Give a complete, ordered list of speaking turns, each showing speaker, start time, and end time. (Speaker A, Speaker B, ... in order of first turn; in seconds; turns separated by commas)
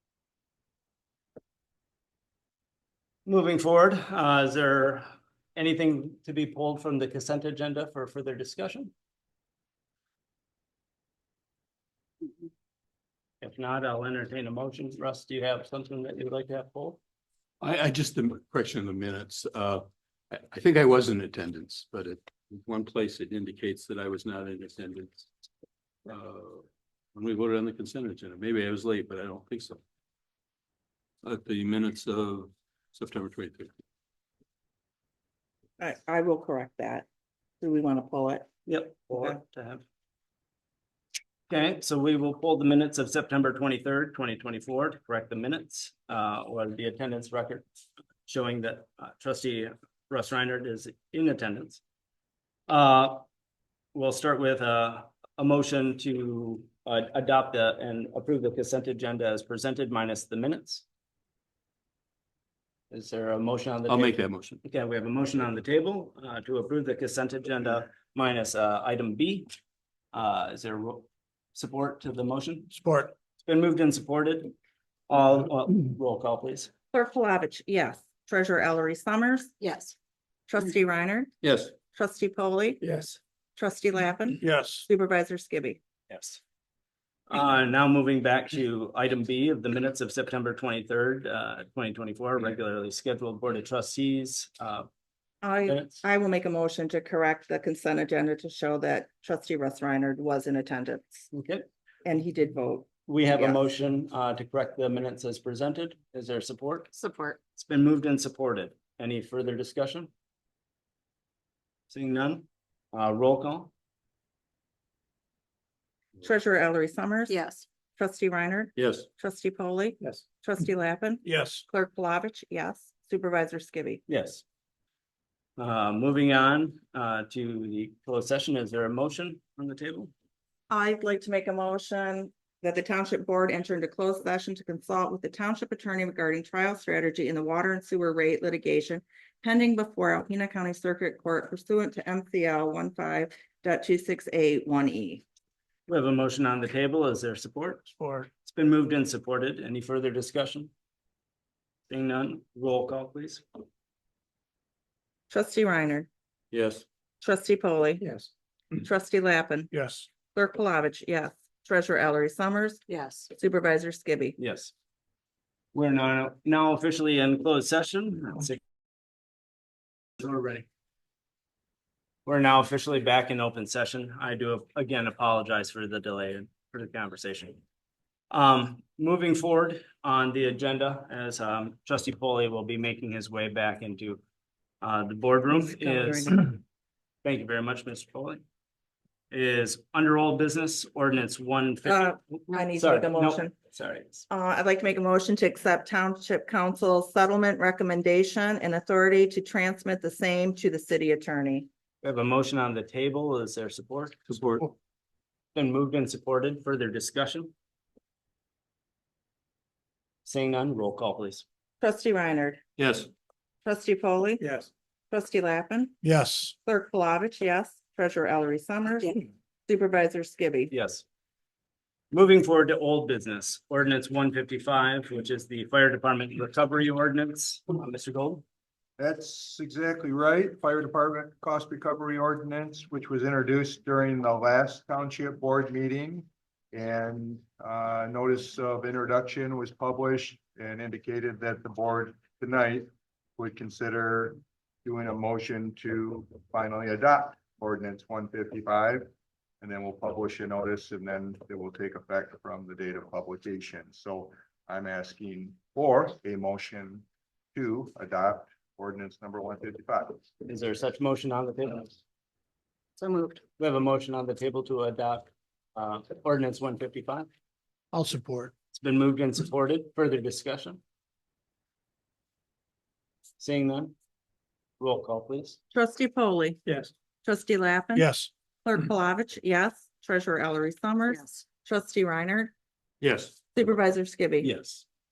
Speaker A: 3.2-8.9, Speaker A: 13.4-17.0, Speaker B: 17.6-25.3, Speaker B: 26.1-26.6, Speaker B: 27.1-29.8, Speaker B: 31.2-33.7, Speaker C: 35.8-37.1, Speaker C: 37.6-38.5, Speaker A: 38.6-39.8, Speaker C: 39.1-39.4, Speaker A: 41.5-47.6, Speaker A: 48.2-51.8, Speaker A: 52.7-53.2, Speaker A: 53.9-60.8, Speaker A: 62.9-69.5, Speaker B: 63.9-64.6, Speaker A: 70.1-72.7, Speaker D: 72.7-73.1, Speaker A: 73.4-74.5, Speaker A: 75.1-76.7, Speaker C: 76.9-79.5, Speaker E: 79.6-79.9, Speaker C: 80.5-81.3, Speaker B: 81.4-81.7, Speaker C: 81.9-82.8, Speaker C: 83.6-85.8, Speaker D: 84.4-84.8, Speaker A: 86.1-86.4, Speaker A: 87.3-94.9, Speaker C: 95.4-101.2, Speaker A: 95.7-96.0, Speaker A: 101.3-101.7, Speaker C: 102.0-103.6, Speaker A: 103.1-106.9, Speaker E: 106.9-107.4, Speaker A: 107.5-110.1, Speaker A: 111.9-113.7, Speaker C: 116.2-117.4, Speaker E: 117.3-117.6, Speaker C: 118.0-124.0, Speaker B: 118.8-119.1, Speaker D: 121.2-121.6, Speaker A: 124.1-124.4, Speaker A: 125.6-130.1, Speaker C: 130.7-145.2, Speaker A: 145.9-147.9, Speaker D: 148.0-148.3, Speaker A: 148.4-150.7, Speaker A: 151.9-153.6, Speaker C: 155.3-156.1, Speaker B: 156.5-156.8, Speaker C: 157.2-158.1, Speaker C: 158.8-159.7, Speaker D: 159.7-160.1, Speaker C: 160.3-162.8, Speaker E: 162.9-163.3, Speaker C: 163.3-164.3, Speaker A: 164.4-164.7, Speaker A: 165.7-168.6, Speaker A: 170.2-170.6, Speaker A: 172.2-177.6, Speaker A: 178.3-184.2, Speaker A: 184.8-186.4, Speaker C: 185.5-186.4, Speaker A: 187.2-188.4, Speaker A: 189.3-194.2, Speaker C: 191.8-193.5, Speaker C: 194.3-201.7, Speaker A: 202.0-204.2, Speaker B: 204.3-204.7, Speaker A: 205.5-207.5, Speaker A: 210.2-211.4, Speaker C: 211.8-212.6, Speaker B: 212.8-213.1, Speaker C: 213.6-214.4, Speaker C: 215.1-215.9, Speaker D: 216.0-216.5, Speaker C: 216.6-220.7, Speaker A: 220.7-221.0, Speaker A: 222.1-228.4, Speaker F: 229.0-249.1, Speaker F: 249.6-260.2, Speaker A: 260.4-261.9, Speaker E: 263.0-263.4, Speaker A: 263.6-267.3, Speaker D: 267.9-268.5, Speaker A: 268.7-270.8, Speaker A: 273.4-273.9, Speaker A: 274.8-275.6, Speaker C: 275.7-276.6, Speaker C: 277.2-278.1, Speaker D: 277.9-278.3, Speaker C: 278.6-282.5, Speaker E: 281.1-281.4, Speaker B: 283.0-283.3, Speaker C: 283.5-284.5, Speaker A: 284.4-284.8